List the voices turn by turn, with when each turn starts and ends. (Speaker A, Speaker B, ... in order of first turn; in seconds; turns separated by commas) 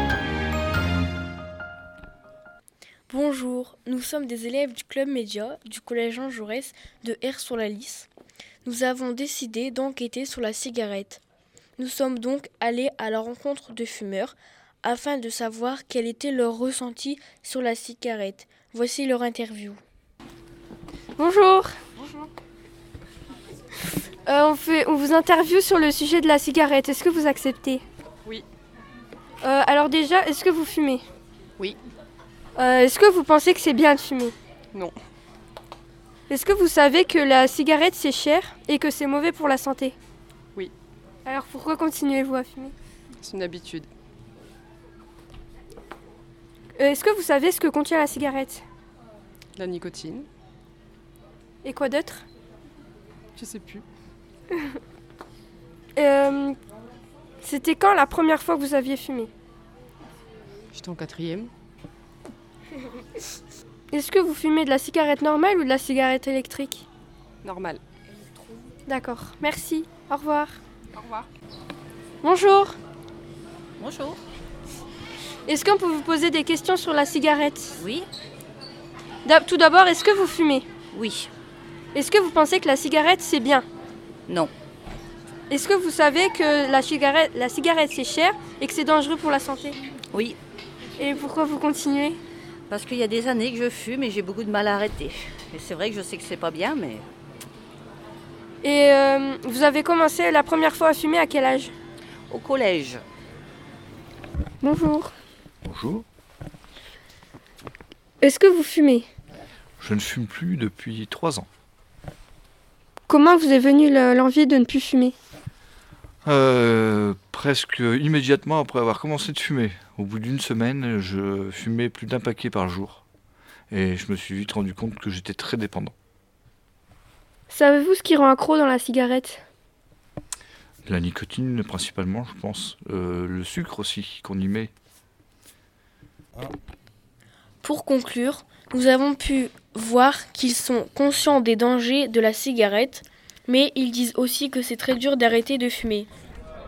Speaker A: 3.1-8.1, Speaker A: 8.7-11.2, Speaker A: 11.8-19.8, Speaker B: 21.2-21.8, Speaker C: 22.0-22.3, Speaker B: 24.2-27.8, Speaker B: 29.4-31.0, Speaker B: 32.6-34.4, Speaker B: 36.3-40.0, Speaker B: 41.2-42.7, Speaker C: 43.2-43.9, Speaker B: 46.8-48.6, Speaker C: 49.6-50.3, Speaker B: 51.6-52.2, Speaker C: 53.4-53.9, Speaker B: 56.0-56.6, Speaker B: 57.4-59.3, Speaker C: 60.7-61.5, Speaker B: 63.9-66.8, Speaker C: 67.4-67.8, Speaker B: 68.9-70.6, Speaker C: 71.0-71.3, Speaker B: 72.2-72.8, Speaker D: 73.8-74.2, Speaker B: 75.5-77.8, Speaker D: 77.8-78.1, Speaker B: 79.2-80.7, Speaker D: 80.9-81.3, Speaker B: 81.9-83.7, Speaker D: 84.3-84.5, Speaker B: 85.5-89.8, Speaker D: 90.1-90.4, Speaker B: 91.0-92.2, Speaker D: 92.7-97.1, Speaker B: 98.6-101.7, Speaker D: 102.3-103.0, Speaker B: 104.6-105.1, Speaker E: 105.7-106.0, Speaker B: 108.2-109.1, Speaker E: 109.8-111.5, Speaker B: 113.1-115.2, Speaker E: 116.2-123.0, Speaker E: 123.7-125.9, Speaker B: 127.5-129.4, Speaker E: 130.9-134.7, Speaker A: 137.6-146.1